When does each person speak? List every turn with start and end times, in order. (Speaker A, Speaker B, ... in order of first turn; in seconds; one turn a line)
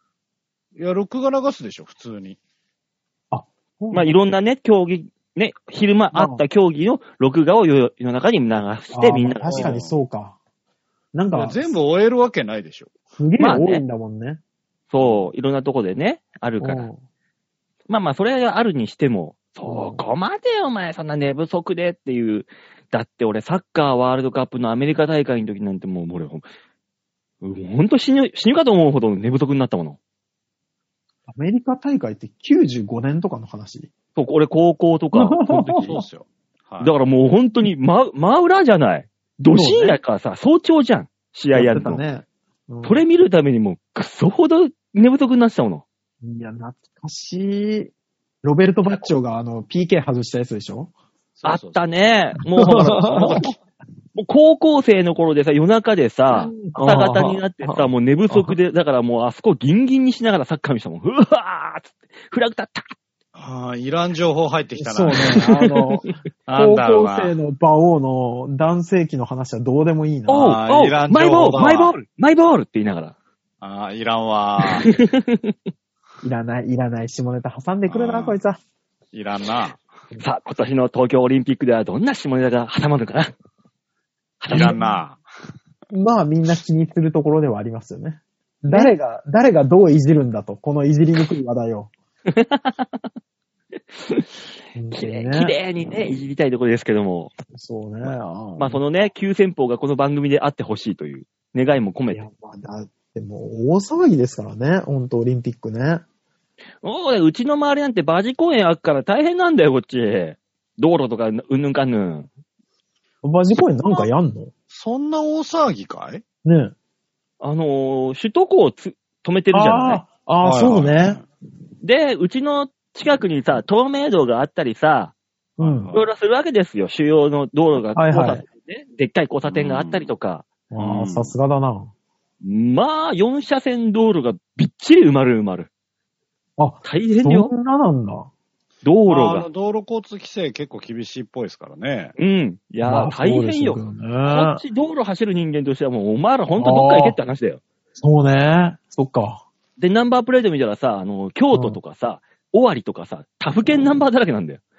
Speaker A: 0.8-2.4
Speaker B: 3.3-4.1
Speaker C: 3.9-9.7
Speaker B: 6.1-6.4
Speaker B: 8.9-10.4
Speaker A: 9.5-9.9
Speaker B: 11.1-11.7
Speaker A: 11.3-12.9
Speaker B: 13.2-14.4
Speaker C: 13.4-13.8
Speaker C: 14.9-16.9
Speaker A: 15.0-15.3
Speaker B: 16.6-17.0
Speaker C: 17.9-26.4
Speaker B: 19.6-20.1
Speaker C: 27.4-30.0
Speaker B: 31.3-33.9
Speaker C: 34.1-36.0
Speaker B: 35.1-36.0
Speaker A: 35.7-36.9
Speaker C: 36.8-42.0
Speaker B: 39.5-40.0
Speaker B: 41.5-43.0
Speaker C: 42.8-45.8
Speaker B: 46.2-47.9
Speaker B: 48.4-50.9
Speaker A: 51.4-51.8
Speaker C: 51.4-53.5
Speaker B: 52.6-53.4
Speaker A: 52.8-53.5
Speaker C: 54.1-62.9
Speaker B: 56.3-58.5
Speaker A: 63.3-65.4
Speaker B: 64.8-70.5
Speaker C: 65.6-66.1
Speaker A: 66.5-67.3
Speaker C: 70.3-73.1
Speaker A: 70.3-72.0
Speaker A: 73.6-74.9
Speaker C: 74.6-75.5
Speaker B: 76.2-78.6
Speaker A: 77.9-78.4
Speaker A: 79.1-79.8
Speaker C: 80.2-83.3
Speaker C: 84.4-84.8
Speaker A: 84.5-85.2
Speaker B: 84.5-84.8
Speaker B: 85.9-91.9
Speaker C: 92.3-93.0
Speaker C: 93.9-94.3
Speaker B: 94.7-95.5
Speaker C: 94.9-97.3
Speaker B: 97.5-98.8
Speaker C: 98.0-102.2
Speaker B: 102.1-106.0
Speaker C: 106.8-112.3
Speaker B: 113.2-114.5
Speaker A: 114.7-116.2
Speaker B: 116.4-116.7
Speaker C: 117.4-120.0
Speaker B: 119.5-121.2
Speaker A: 120.4-121.2
Speaker C: 121.8-125.1
Speaker B: 125.6-125.9
Speaker A: 125.6-126.1
Speaker C: 125.9-130.4
Speaker B: 128.0-128.4
Speaker A: 129.5-130.1
Speaker B: 130.7-131.9
Speaker A: 130.8-131.3
Speaker C: 132.4-135.7
Speaker B: 136.6-138.3
Speaker C: 136.8-137.5
Speaker C: 138.8-139.5
Speaker A: 139.1-142.1
Speaker C: 142.2-147.6
Speaker B: 142.8-144.6
Speaker B: 146.6-147.2
Speaker B: 148.0-149.4
Speaker C: 149.8-154.6
Speaker B: 151.5-151.8